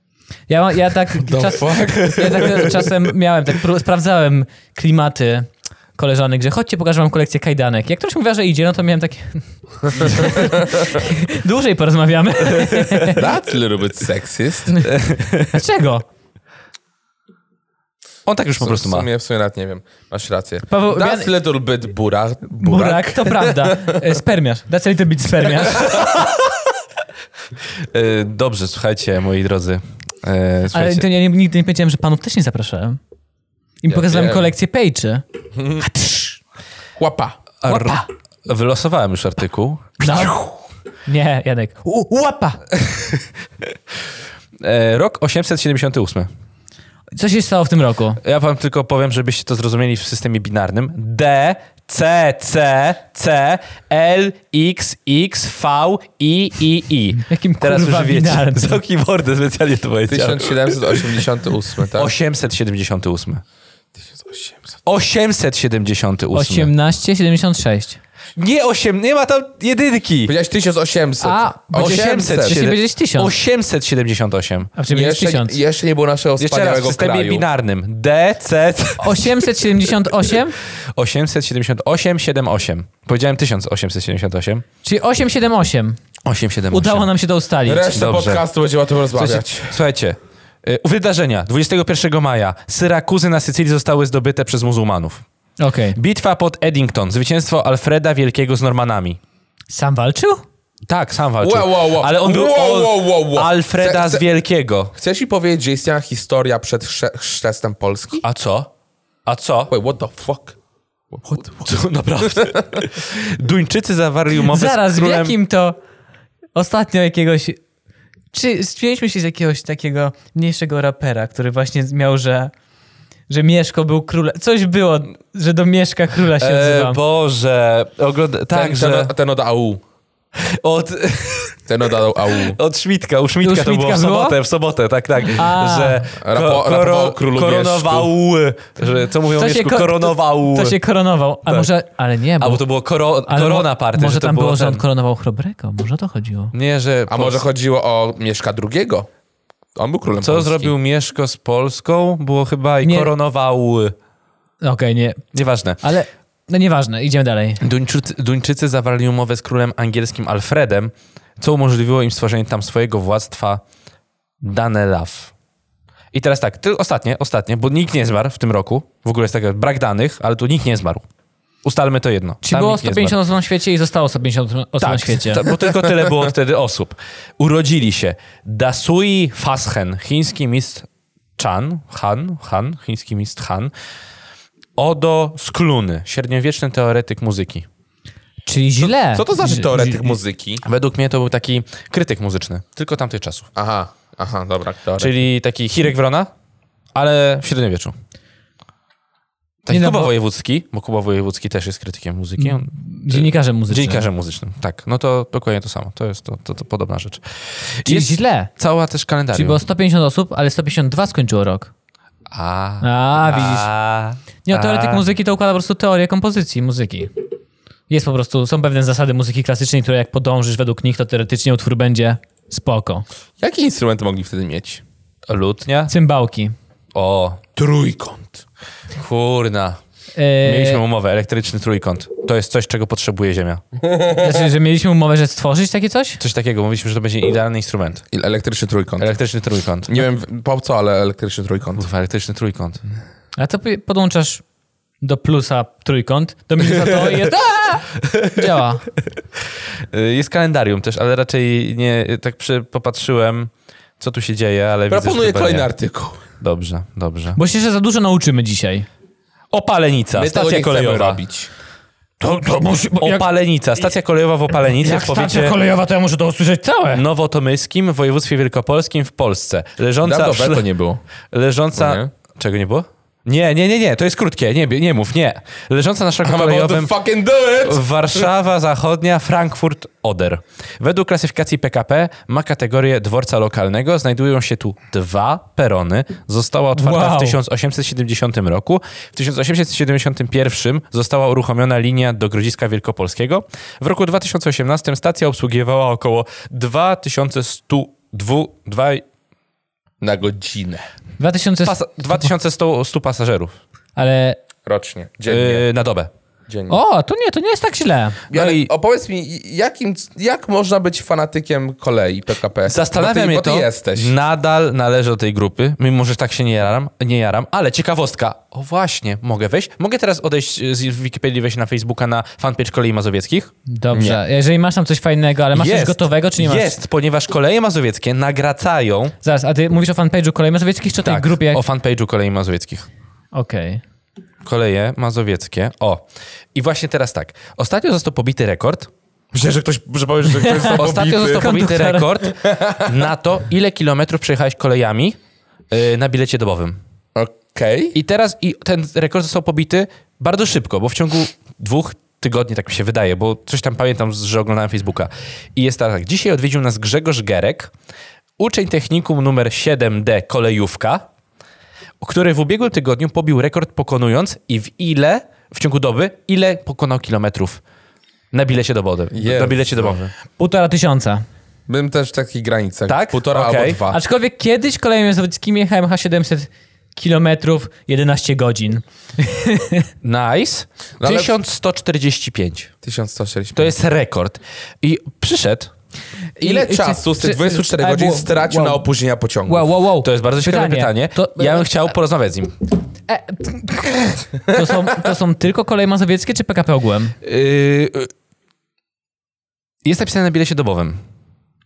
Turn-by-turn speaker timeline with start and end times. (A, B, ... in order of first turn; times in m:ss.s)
0:00.5-0:13.3 A
0:01.2-0:02.9 B
0:12.6-0:13.1 C
0:13.1-0:14.8 B
0:14.7-0:16.0 A
0:14.8-0:15.6 C
0:18.2-0:19.1 C
0:18.6-0:24.0 B
0:20.7-0:21.3 A
0:22.6-0:26.3 A
0:27.9-0:31.1 C
0:30.7-0:33.0 A
0:33.8-0:35.2 A
0:33.9-0:34.5 B
0:35.6-0:35.8 B
0:35.8-0:36.4 A
0:37.0-0:37.4 B
0:37.6-0:40.3 C
0:37.6-0:38.1 A
0:40.0-0:40.5 A
0:41.0-0:42.6 A
0:44.6-0:46.3 C
0:47.1-0:48.2 A
0:48.2-1:01.2 C
0:57.3-0:58.8 A
1:00.1-1:02.1 B
1:01.9-1:03.4 C
1:04.0-1:04.8 B
1:04.8-1:06.7 C
1:06.3-1:08.0 A
1:08.4-1:10.3 C
1:10.2-1:12.6 B
1:11.2-1:13.3 A
1:11.7-1:14.7 C
1:14.8-1:15.6 A
1:14.9-1:17.4 B
1:16.4-1:19.5 C
1:19.0-1:20.6 A
1:20.9-1:24.6 C
1:24.8-1:26.0 A
1:26.2-1:27.1 C
1:26.7-1:27.9 A
1:27.6-1:29.8 B
1:27.9-1:28.4 C
1:29.1-1:35.2 C
1:35.6-1:36.0 A
1:35.9-1:39.2 C
1:39.7-1:40.4 A
1:40.9-1:44.9 C
1:41.4-1:44.2 B
1:44.9-1:48.2 B
1:48.2-1:48.7 C
1:49.2-1:49.7 C
1:49.7-1:50.6 B
1:51.1-1:51.7 B
1:51.6-1:55.4 C
1:54.4-1:55.8 A
1:56.5-1:57.6 A
1:58.3-2:02.5 A
2:03.3-2:07.0 A
2:06.4-2:09.1 C
2:08.5-2:09.8 B
2:10.4-2:11.6 C
2:11.7-2:12.6 B
2:12.4-2:20.8 C
2:13.4-2:14.4 A
2:15.3-2:16.0 A
2:16.2-2:18.1 B
2:19.4-2:22.6 A
2:22.4-2:24.8 C
2:23.3-2:26.5 A
2:26.5-2:27.4 C
2:27.1-2:29.1 B
2:29.8-2:30.7 B
2:30.2-2:33.9 C
2:32.8-2:33.1 A
2:34.6-2:35.2 A
2:35.3-2:35.8 C
2:35.8-2:37.6 A
2:37.6-2:43.6 C
2:44.4-2:45.3 C
2:46.1-2:51.0 C
2:51.6-2:53.2 C
2:52.4-2:55.5 A
2:54.8-3:03.7 C
3:04.8-3:07.7 C
3:08.4-3:10.1 A
3:08.8-3:10.6 B
3:10.6-3:13.5 C
3:13.5-3:15.1 B
3:15.0-3:16.3 C
3:16.9-3:17.9 C
3:19.6-3:29.6 C
3:19.7-3:20.1 A
3:22.4-3:24.0 A
3:27.8-3:28.5 A
3:29.3-3:31.7 A
3:32.3-3:35.0 C
3:32.8-3:33.7 A
3:34.4-3:37.1 A
3:37.9-3:43.0 A
3:43.4-3:44.8 B
3:45.3-3:45.9 C
3:45.9-3:46.5 A
3:46.9-3:47.4 C
3:47.6-3:48.4 B
3:48.9-3:49.8 C
3:50.1-3:50.8 A
3:50.4-3:53.6 C
3:54.1-3:56.2 A
3:56.2-3:58.0 C
3:58.1-3:59.1 B
3:59.0-4:00.0 C
3:59.9-4:01.8 B
4:01.8-4:02.8 C
4:03.4-4:04.4 A
4:05.0-4:08.8 A
4:06.8-4:07.2 C
4:08.0-4:08.4 C
4:09.9-4:15.7 C
4:14.9-4:16.2 B
4:16.4-4:17.4 C
4:17.4-4:18.9 A
4:19.5-4:21.2 C
4:20.1-4:21.5 B
4:22.2-4:23.2 A
4:23.0-4:25.6 C
4:24.8-4:27.0 A
4:26.9-4:30.7 C
4:30.0-4:31.0 B
4:31.3-4:36.9 C
4:31.8-4:32.1 B
4:36.2-4:38.3 B
4:37.6-4:59.0 C
4:46.8-4:47.4 A
5:00.0-5:00.8 B
5:01.2-5:02.3 A
5:01.6-5:03.6 C
5:04.0-5:04.4 A
5:04.6-5:05.6 B
5:05.3-5:06.1 C
5:06.5-5:06.8 B
5:06.7-5:08.2 A
5:08.3-5:08.7 C
5:08.3-5:14.1 B
5:12.7-5:23.5 C
5:23.7-5:26.8 A
5:23.9-5:24.2 B
5:25.5-5:29.1 C
5:29.2-5:31.6 A
5:31.0-5:32.9 C
5:33.3-5:33.8 A
5:34.4-5:36.0 C
5:36.5-5:38.9 C
5:39.3-5:41.5 B
5:40.4-5:42.2 A
5:40.7-5:45.2 C
5:42.4-5:43.0 B
5:45.7-5:46.8 C
5:47.1-5:47.9 B
5:47.9-5:57.7 C
5:58.4-6:01.0 C
6:02.0-6:07.6 C
6:08.3-6:10.1 C
6:09.1-6:10.0 B
6:10.4-6:11.2 A
6:11.7-6:14.0 B
6:12.9-6:13.8 C
6:13.9-6:19.9 A
6:20.0-6:22.7 C
6:21.0-6:21.3 B
6:22.8-6:23.7 B
6:23.5-6:25.7 C
6:26.4-6:28.8 A
6:26.4-6:29.7 B
6:29.4-6:31.8 A
6:30.0-6:32.5 C
6:33.1-6:37.1 A
6:37.2-6:38.1 C
6:39.8-6:41.0 C